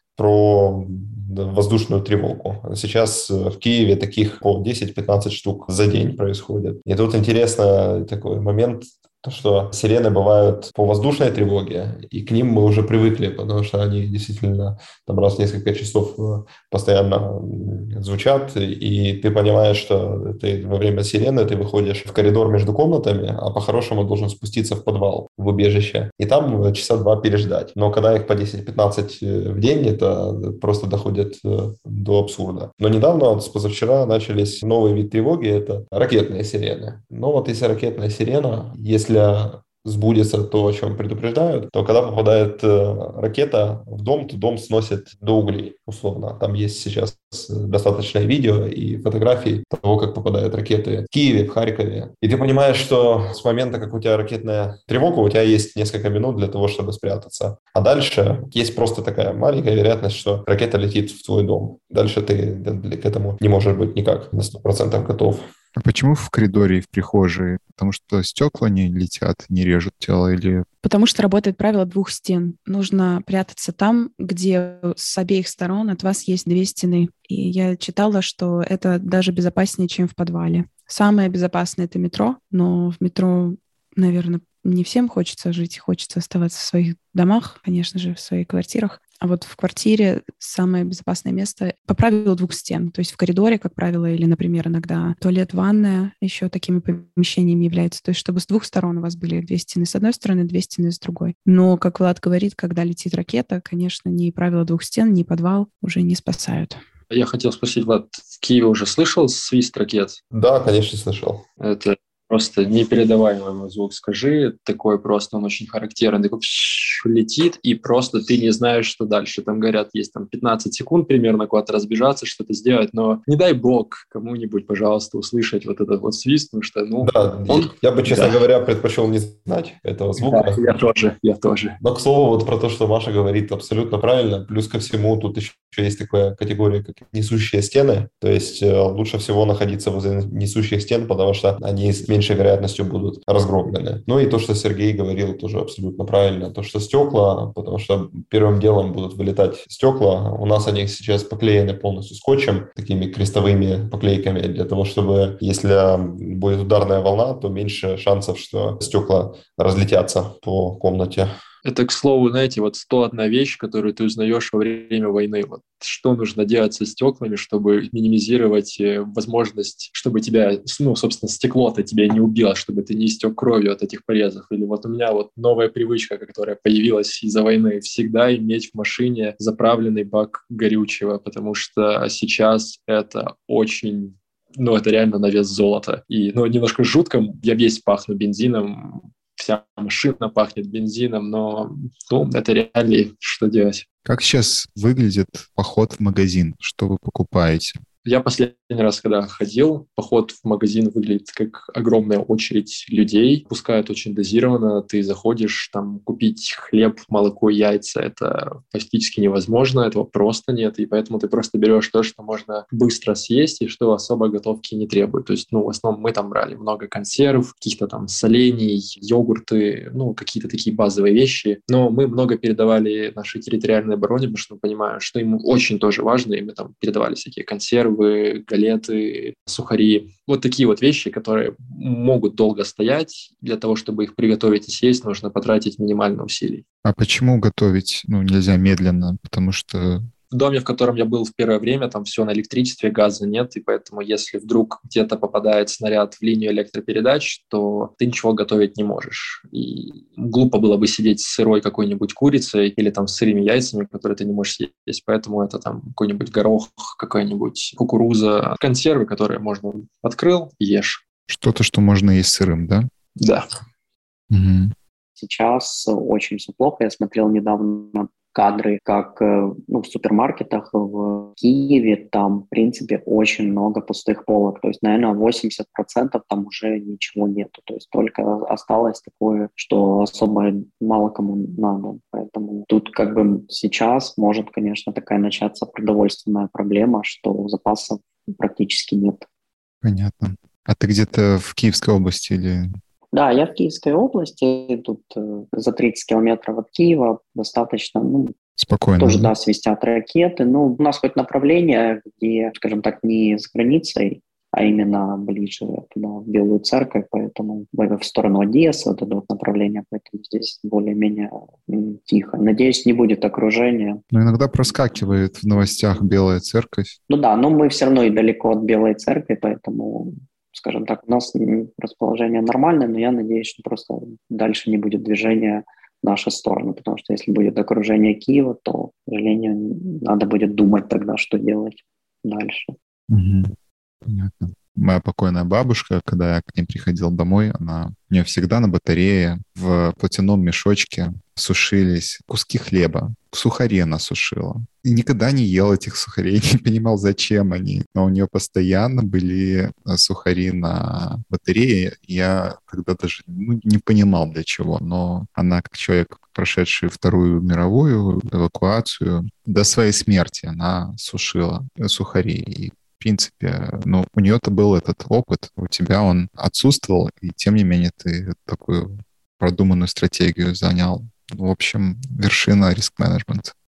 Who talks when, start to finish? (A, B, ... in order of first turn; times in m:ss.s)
0:00.2-1:05.4 A
1:05.8-1:10.6 B
1:10.8-1:46.8 C
1:47.1-1:50.2 D
1:50.3-1:51.4 A
1:51.6-2:08.4 D
2:07.0-2:10.6 A
2:10.2-2:11.8 D
2:11.8-2:41.3 A
2:41.6-3:13.8 D
3:14.0-3:17.8 B
3:18.0-3:56.6 D
3:56.8-4:00.1 B
4:00.3-4:21.0 D
4:21.3-4:22.9 B
4:23.2-4:23.4 D
4:24.3-4:24.7 B
4:25.2-4:49.2 E
4:49.8-4:52.8 B
4:53.1-4:58.3 E
4:58.6-4:59.3 B
4:59.0-5:14.0 E
5:14.1-5:17.0 B
5:17.1-5:32.7 E
5:33.1-5:33.5 B
5:34.0-6:13.5 B